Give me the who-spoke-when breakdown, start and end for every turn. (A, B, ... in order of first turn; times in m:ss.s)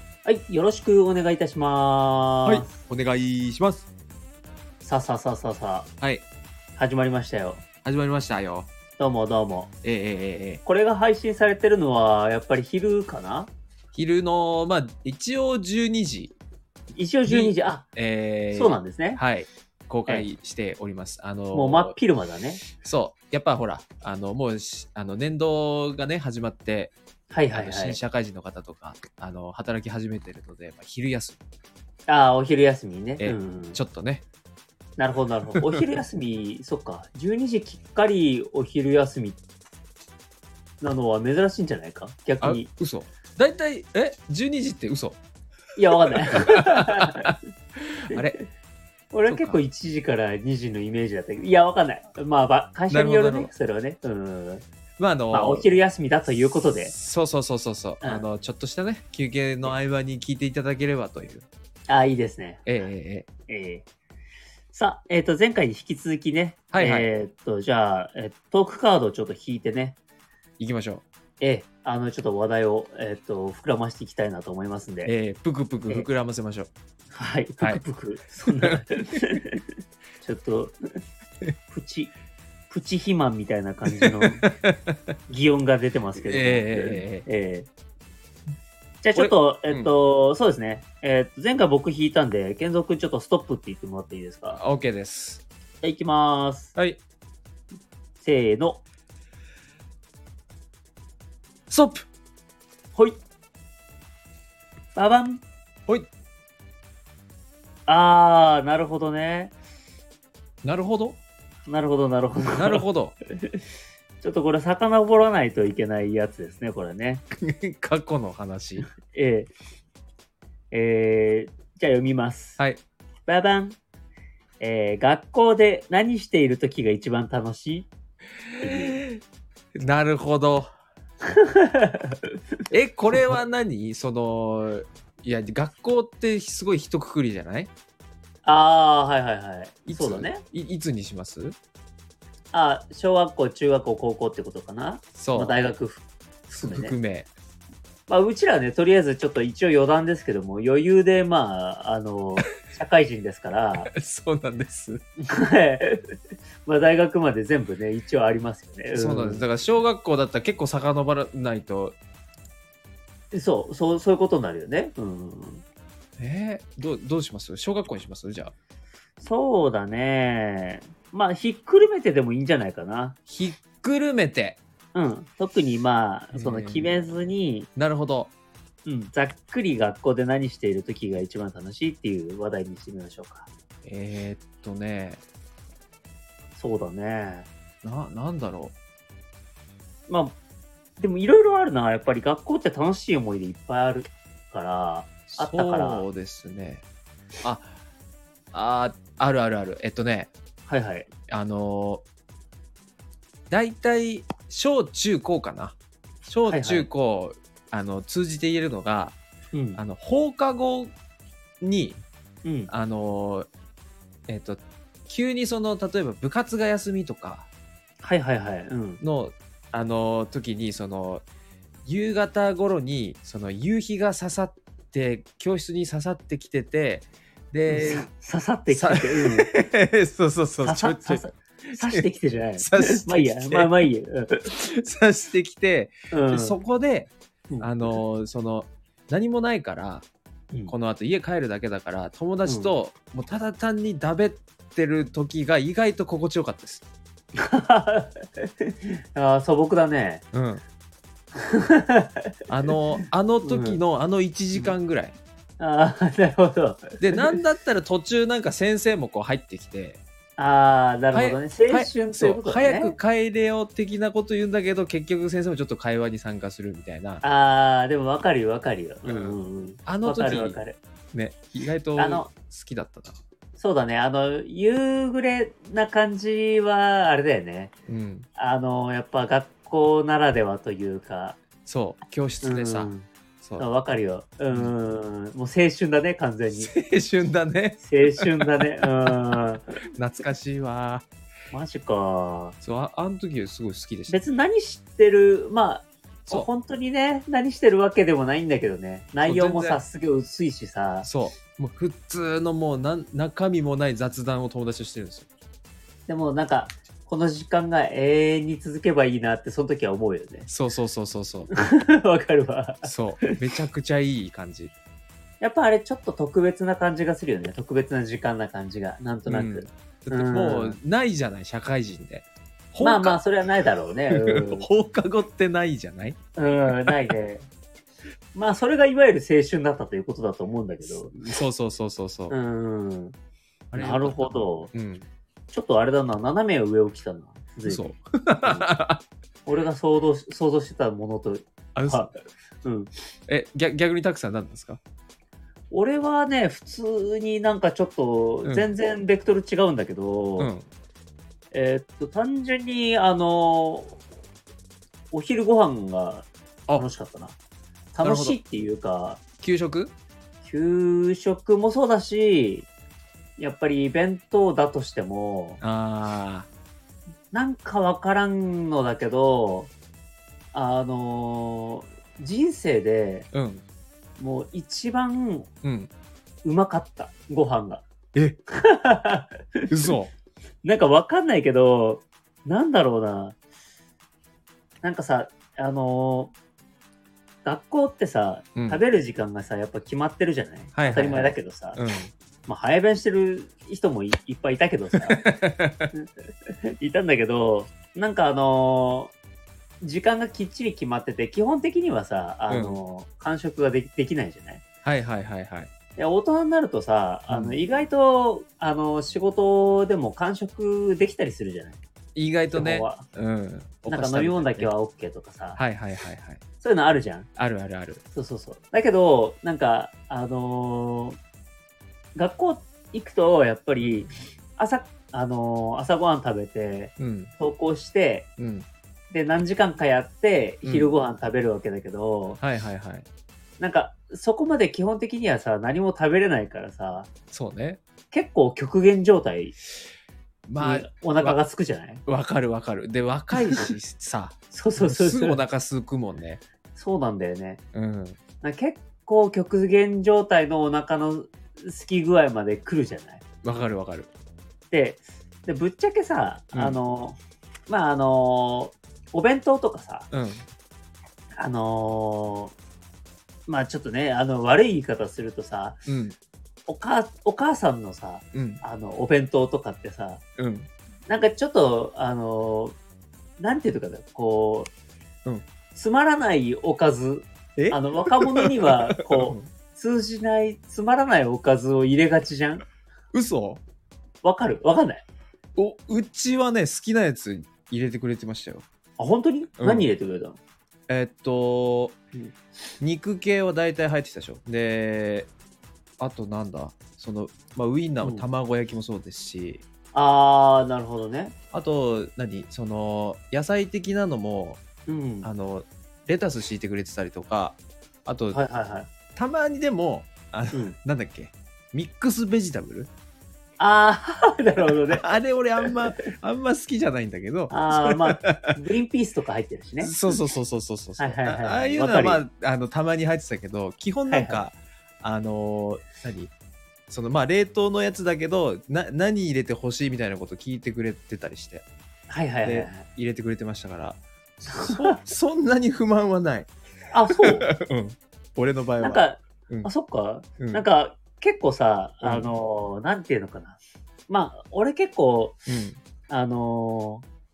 0:00.2-0:02.7 A
0:02.5-0:03.9 B
0:04.8-0:05.9 A
0:06.8-0:07.6 A
0:07.8-0:08.7 B
0:09.0-0:09.7 A
0:09.8-0:10.6 B
0:10.6-0:13.5 A
0:13.9-0:16.4 B
0:17.0-0:17.8 A
0:17.3-0:21.9 B
0:18.5-0:19.2 A
0:21.5-0:22.6 A
0:22.8-0:26.9 B
0:27.3-0:28.0 A
0:27.5-0:31.4 B
0:32.1-0:33.8 A
0:33.2-0:34.2 B
0:35.0-0:39.4 A
0:40.8-0:42.7 A
0:42.4-0:45.2 B
0:45.8-0:47.3 A
0:46.1-0:48.4 B
0:48.1-0:48.4 A
0:49.1-0:54.6 A
0:49.3-0:49.6 B
0:52.9-0:53.5 B
0:55.0-0:55.7 B
0:55.3-0:56.9 A
0:56.9-1:01.5 B
1:01.9-1:02.7 A
1:02.7-1:03.3 B
1:03.5-1:03.8 A
1:04.7-1:10.0 A
1:06.7-1:07.1 B
1:10.6-1:11.0 B
1:11.4-1:15.1 A
1:15.0-1:16.7 B
1:17.1-1:19.6 A
1:18.6-1:19.0 B
1:20.2-1:20.8 A
1:21.7-1:22.1 A
1:22.7-1:24.4 A
1:24.0-1:25.0 B
1:25.3-1:27.7 A
1:26.3-1:27.3 B
1:29.0-1:34.6 A
1:29.2-1:29.9 B
1:34.6-1:35.4 B
1:35.8-1:36.8 A
1:38.2-1:38.8 A
1:41.7-1:42.1 B
1:45.0-1:45.4 A
1:47.9-1:49.5 A
1:50.6-1:51.2 B
1:51.7-1:52.8 A
1:52.5-1:53.2 B
1:54.2-1:57.2 A
1:57.4-1:58.9 B
1:59.1-1:59.5 A
2:00.7-2:02.6 A
2:03.3-2:03.8 A
2:04.6-2:07.9 A
2:08.6-2:09.2 B
2:08.6-2:09.0 A
2:09.8-2:10.7 B
2:11.2-2:12.3 A
2:12.7-2:17.7 B
2:18.4-2:20.4 A
2:19.9-2:21.6 B
2:22.5-2:27.0 A
2:25.2-2:25.6 B
2:26.5-2:27.3 B
2:28.1-2:33.9 A
2:33.8-2:35.0 B
2:35.3-2:36.0 A
2:36.6-2:39.5 A
2:39.0-2:42.0 B
2:43.3-2:45.6 A
2:46.2-2:48.5 B
2:49.2-2:53.2 A
2:53.3-2:54.6 B
2:54.9-2:57.7 A
2:56.3-2:56.9 B
2:57.8-2:58.3 B
2:58.8-3:03.5 A
3:03.8-3:05.2 B
3:06.6-3:07.5 A
3:07.8-3:08.8 B
3:10.1-3:10.4 A
3:11.0-3:16.1 A
3:15.3-3:16.8 B
3:17.4-3:17.7 B
3:18.5-3:20.3 B
3:20.7-3:21.1 A
3:21.3-3:22.0 B
3:23.5-3:29.2 B
3:26.5-3:26.9 A
3:29.5-3:29.8 A
3:29.8-3:30.9 B
3:31.6-3:32.0 B
3:32.4-3:32.7 A
3:32.7-3:33.5 B
3:34.3-3:37.5 B
3:38.0-3:39.0 A
3:39.0-3:41.2 B
3:41.8-3:48.1 B
3:47.7-3:49.5 A
3:48.7-3:52.1 B
3:50.6-3:54.5 A
3:52.6-3:53.7 B
3:54.4-4:00.1 B
3:56.1-3:56.6 A
3:57.5-3:58.0 A
4:00.7-4:06.8 B
4:02.5-4:02.7 A
4:07.4-4:10.2 A
4:10.3-4:10.6 B
4:11.4-4:12.3 A
4:12.5-4:15.2 B
4:13.4-4:13.8 A
4:15.6-4:17.4 A
4:17.0-4:20.0 B
4:20.4-4:23.0 A
4:21.1-4:27.2 B
4:27.2-4:30.8 A
4:29.1-4:30.6 B
4:31.1-4:33.2 B
4:32.0-4:32.3 A
4:33.6-4:37.7 A
4:37.9-4:38.3 B
4:38.4-4:41.4 A
4:41.7-4:42.9 B
4:42.4-4:43.1 A
4:43.6-4:46.7 A
4:46.6-4:49.4 B
4:47.8-4:49.8 A
4:50.0-4:51.1 B
4:51.5-4:52.6 A
4:52.6-4:54.2 B
4:54.1-5:01.1 A
4:59.2-4:59.8 B
5:01.0-5:05.3 B
5:06.1-5:10.5 A
5:10.5-5:11.5 B
5:11.5-5:13.4 A
5:12.8-5:14.7 B
5:15.4-5:20.8 A
5:19.3-5:23.2 B
5:22.8-5:24.7 A
5:24.1-5:26.2 B
5:26.4-5:27.5 A
5:28.3-5:31.1 A
5:30.9-5:32.4 B
5:32.3-5:33.2 A
5:33.7-5:35.1 B
5:33.8-5:34.7 A
5:35.5-5:37.9 A
5:37.7-5:39.0 B
5:38.4-5:38.7 A
5:39.5-5:42.1 A
5:41.8-5:42.1 B
5:42.6-5:42.9 A
5:43.3-5:44.8 B
5:45.7-5:50.5 A
5:50.4-5:50.7 B
5:51.5-5:54.0 A
5:55.1-5:57.4 A
5:57.9-5:59.2 A
5:58.0-5:58.4 B
5:59.4-5:59.9 B
6:00.4-6:02.7 A
6:03.4-6:05.6 A
6:05.6-6:06.5 B
6:07.3-6:09.7 A
6:10.5-6:13.3 A
6:13.3-6:13.6 B
6:14.2-6:15.5 A
6:15.6-6:15.9 B
6:16.4-6:17.8 A
6:18.5-6:19.9 A
6:19.7-6:20.1 B
6:20.6-6:23.4 A
6:24.8-6:26.3 A
6:27.4-6:31.8 A
6:28.6-6:28.8 B
6:30.8-6:32.1 B
6:32.5-6:35.2 A
6:35.0-6:35.9 B
6:36.8-6:39.1 A
6:39.8-6:44.6 A
6:42.5-6:42.8 B
6:44.8-6:45.7 B
6:46.0-6:51.8 A
6:47.3-6:47.6 B
6:52.2-6:54.7 B
6:52.5-6:53.0 A
6:53.9-6:55.6 A
6:55.6-6:56.4 B
6:56.6-6:57.3 A
6:57.4-6:58.0 B
6:58.1-7:01.2 A
7:02.2-7:08.3 A
7:07.0-7:07.3 B
7:08.4-7:08.7 B
7:09.1-7:12.4 A
7:10.6-7:10.9 B
7:12.4-7:13.1 B
7:13.6-7:17.1 A
7:17.3-7:17.8 B
7:18.1-7:19.6 A
7:20.5-7:21.4 B
7:20.6-7:22.0 A
7:22.1-7:26.4 B
7:24.5-7:25.4 A
7:26.8-7:27.6 A
7:27.7-7:28.2 B
7:28.4-7:33.2 A
7:33.4-7:34.1 B
7:34.7-7:40.1 A
7:40.1-7:40.4 B
7:41.4-7:42.5 A
7:43.5-7:45.8 A
7:45.9-7:46.2 B
7:46.7-7:50.2 A
7:48.3-7:48.6 B
7:50.4-7:50.7 B
7:51.1-7:52.8 A
7:53.4-7:54.7 A
7:55.8-8:02.6 A
7:57.6-7:59.5 B
8:03.1-8:03.6 B
8:04.2-8:05.0 A
8:05.6-8:08.6 B
8:09.0-8:10.4 A
8:09.6-8:09.9 B
8:10.9-8:12.0 B
8:12.8-8:15.3 B
8:16.0-8:19.6 B
8:18.0-8:18.3 A
8:19.9-8:21.3 A
8:21.5-8:24.6 B
8:24.9-8:25.3 A
8:25.2-8:28.4 B
8:28.3-8:28.9 A
8:29.2-8:32.9 B
8:33.6-8:35.1 A
8:34.9-8:38.5 B
8:37.5-8:40.0 A
8:39.8-8:46.3 B
8:41.0-8:42.2 A
8:44.1-8:44.4 A
8:46.9-8:51.6 B
8:52.1-8:52.8 A
8:52.4-8:56.5 B
8:54.5-8:55.0 A
8:56.9-8:57.5 A
8:57.2-8:59.7 B
8:58.8-9:05.4 A
9:02.0-9:02.3 B
9:05.5-9:05.8 B
9:06.1-9:07.0 A